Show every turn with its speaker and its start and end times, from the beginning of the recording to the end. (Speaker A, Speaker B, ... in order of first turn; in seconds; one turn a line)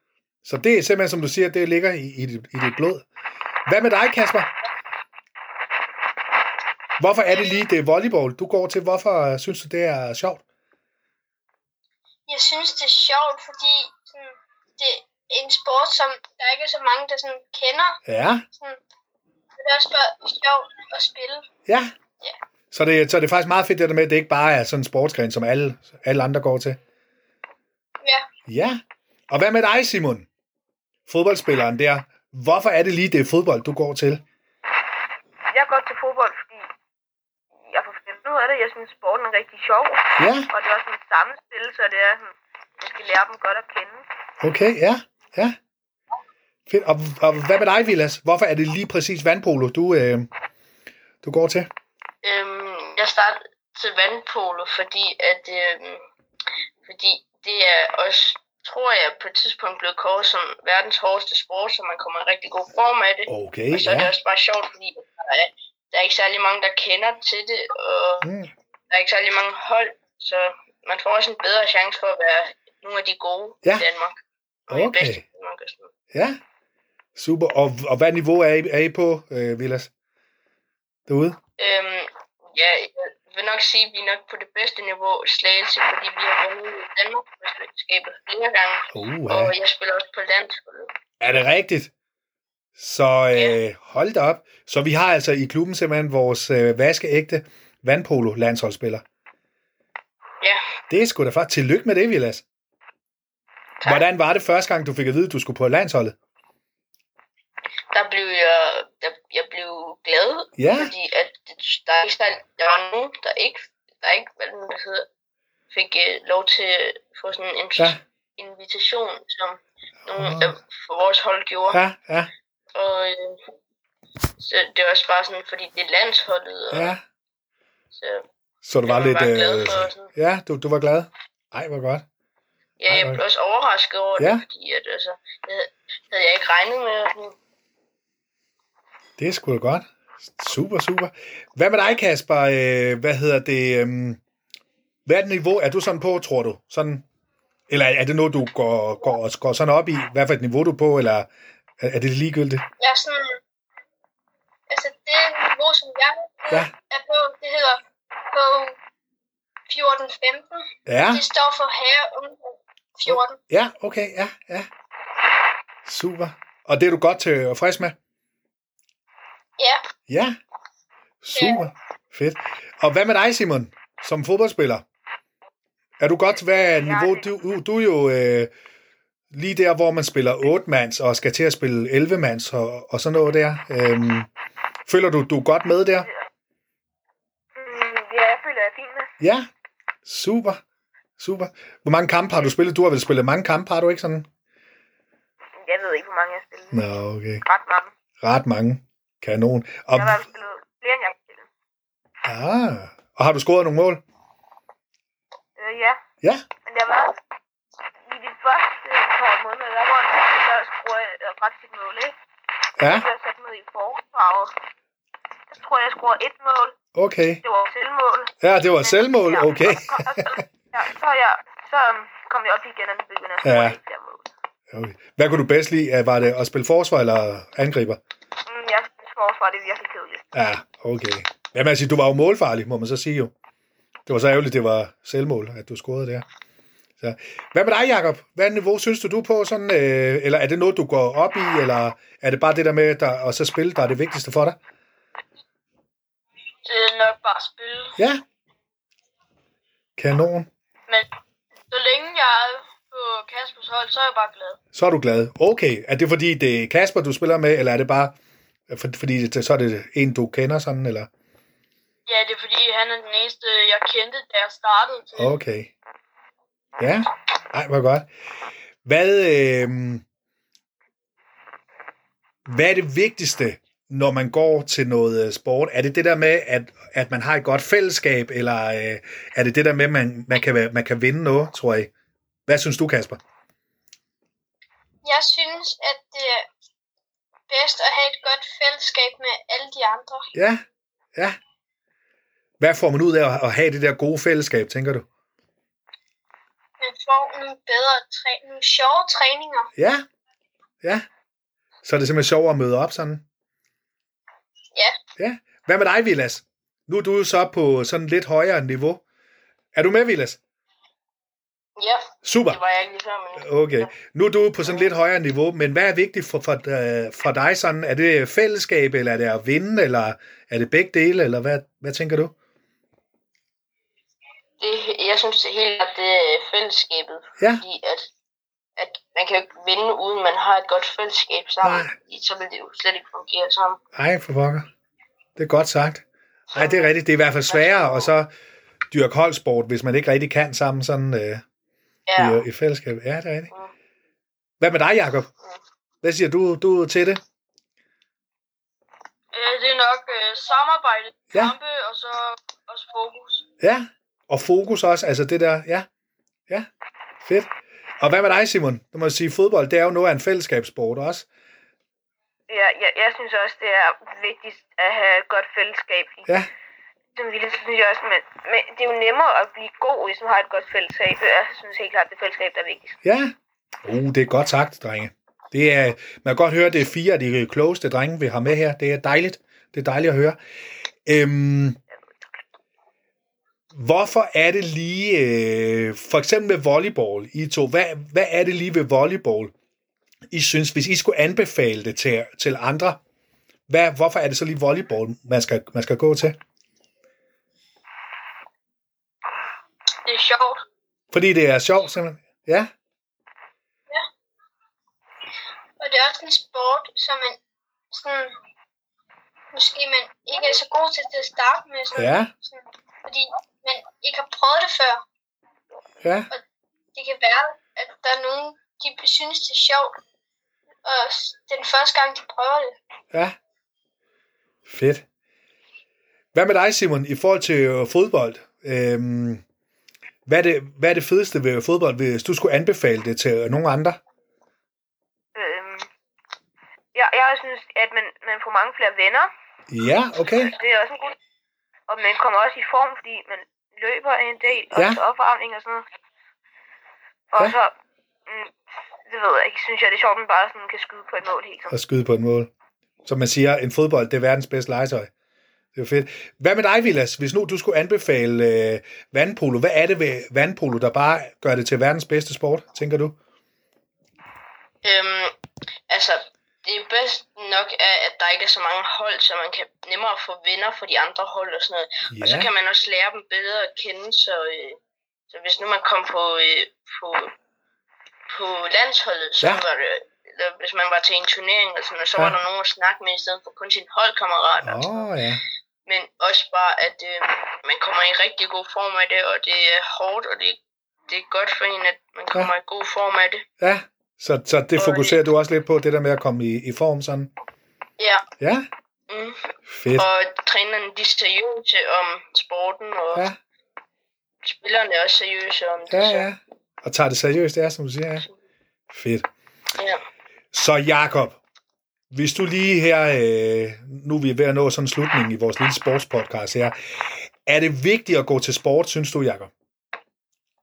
Speaker A: 0.4-3.0
Speaker A: 3.6-4.5
Speaker A: 7.0-10.4
Speaker B: 12.3-18.0
Speaker A: 18.1-18.4
Speaker B: 18.5-18.8
Speaker B: 19.6-21.5
Speaker A: 21.7-21.9
Speaker A: 22.7-26.8
Speaker A: 28.4-28.8
Speaker A: 29.3-30.3
Speaker A: 31.1-34.2
Speaker C: 35.5-36.7
Speaker C: 37.6-44.0
Speaker A: 40.2-40.5
Speaker A: 44.4-45.5
Speaker A: 46.7-50.3
Speaker A: 51.2-51.7
Speaker D: 52.2-56.0
Speaker D: 56.8-68.3
Speaker A: 63.3-64.1
Speaker A: 68.2-68.5
Speaker D: 68.9-75.9
Speaker A: 74.7-75.2
Speaker A: 76.1-76.4
Speaker A: 77.2-79.9
Speaker A: 81.1-81.4
Speaker D: 81.6-90.9
Speaker A: 88.9-89.5
Speaker A: 91.2-91.9
Speaker A: 92.8-99.0
Speaker D: 93.3-93.6
Speaker A: 100.9-102.4
Speaker A: 103.8-106.1
Speaker D: 107.9-115.1
Speaker A: 110.6-110.9
Speaker D: 115.7-121.8
Speaker A: 120.1-120.5
Speaker A: 121.7-122.3
Speaker D: 122.7-123.4
Speaker D: 124.4-126.9
Speaker A: 126.7-127.0
Speaker D: 127.9-128.2
Speaker A: 128.6-132.0
Speaker D: 128.8-130.1
Speaker D: 132.8-137.4
Speaker A: 132.9-133.2
Speaker A: 134.2-134.4
Speaker A: 139.2-144.2
Speaker A: 145.1-147.0
Speaker A: 147.7-151.3
Speaker A: 151.8-152.6
Speaker B: 152.8-153.4
Speaker B: 154.7-158.8
Speaker B: 159.7-163.4
Speaker A: 160.9-161.2
Speaker A: 163.1-164.7
Speaker A: 165.8-167.9
Speaker A: 170.1-170.3
Speaker A: 171.2-174.8
Speaker B: 171.3-171.7
Speaker A: 176.0-178.5
Speaker C: 176.6-177.3
Speaker A: 179.3-184.3
Speaker A: 184.9-186.1
Speaker C: 187.6-189.1
Speaker A: 189.2-189.5
Speaker A: 190.0-190.6
Speaker A: 191.2-194.3
Speaker C: 195.6-196.9
Speaker A: 196.7-197.4
Speaker C: 197.4-197.9
Speaker A: 198.2-200.2
Speaker C: 199.9-201.5
Speaker A: 202.2-204.0
Speaker C: 205.6-206.0
Speaker C: 206.6-207.1
Speaker C: 208.1-212.2
Speaker A: 212.8-213.1
Speaker C: 212.8-214.5
Speaker C: 215.5-216.8
Speaker A: 216.9-217.4
Speaker C: 217.4-224.3
Speaker A: 218.4-220.3
Speaker A: 223.4-223.8
Speaker A: 224.7-228.0
Speaker C: 228.4-230.2
Speaker A: 230.3-233.3
Speaker A: 234.1-236.2
Speaker A: 237.0-244.6
Speaker E: 246.6-247.9
Speaker A: 248.0-248.2
Speaker A: 250.0-250.5
Speaker E: 251.7-254.6
Speaker A: 254.7-258.1
Speaker A: 258.7-261.1
Speaker E: 262.1-265.4
Speaker A: 265.1-265.7
Speaker A: 266.8-268.1
Speaker A: 268.8-270.0
Speaker A: 272.4-281.9
Speaker A: 282.5-283.2
Speaker B: 285.0-286.5
Speaker B: 287.5-290.3
Speaker A: 290.3-290.6
Speaker A: 292.6-295.1
Speaker B: 296.8-299.7
Speaker A: 299.8-300.0
Speaker A: 301.8-303.2
Speaker A: 305.2-309.0
Speaker A: 309.7-310.4
Speaker D: 311.8-313.9
Speaker A: 312.2-312.6
Speaker A: 313.4-322.3
Speaker D: 324.6-328.1
Speaker D: 328.8-333.8
Speaker A: 331.6-331.9
Speaker A: 333.9-334.7
Speaker A: 335.4-338.3
Speaker D: 336.5-336.9
Speaker D: 337.5-338.1
Speaker A: 338.9-341.4
Speaker D: 342.1-342.4
Speaker A: 342.1-343.5
Speaker A: 344.6-345.3
Speaker A: 346.0-347.2
Speaker E: 349.3-353.4
Speaker A: 353.6-355.9
Speaker A: 357.2-361.2
Speaker C: 362.5-366.3
Speaker C: 367.1-372.9
Speaker A: 373.0-373.3
Speaker A: 373.8-380.4
Speaker A: 381.1-381.8
Speaker A: 383.7-389.5
Speaker A: 390.3-393.0
Speaker A: 393.7-396.4
Speaker E: 400.0-400.6
Speaker A: 401.1-402.7
Speaker B: 405.8-407.4
Speaker B: 407.9-408.3
Speaker B: 409.5-415.0
Speaker A: 411.9-412.3
Speaker A: 416.0-416.3
Speaker B: 416.9-419.9
Speaker B: 420.8-422.8
Speaker A: 424.6-425.0
Speaker A: 426.3-429.4
Speaker A: 430.2-434.0
Speaker C: 435.3-435.9
Speaker C: 436.9-439.3
Speaker A: 439.7-440.5
Speaker C: 440.4-441.1
Speaker C: 441.9-445.9
Speaker A: 444.7-445.0
Speaker C: 447.3-447.7
Speaker C: 448.3-448.5
Speaker C: 449.1-451.7
Speaker A: 451.7-452.5
Speaker A: 453.0-455.1
Speaker A: 455.7-463.1
Speaker D: 464.8-465.3
Speaker D: 465.9-474.8
Speaker A: 472.1-472.5
Speaker D: 475.3-477.3
Speaker D: 478.3-485.1
Speaker A: 484.6-485.4
Speaker D: 485.9-493.4
Speaker A: 493.6-497.3
Speaker D: 494.8-495.2
Speaker D: 498.0-498.2
Speaker A: 498.4-498.7
Speaker D: 499.1-499.4
Speaker A: 499.7-500.1
Speaker D: 499.9-503.3
Speaker D: 504.4-506.3
Speaker A: 505.9-508.2
Speaker A: 508.9-509.3
Speaker A: 510.5-511.4
Speaker A: 512.1-516.8
Speaker A: 517.4-519.5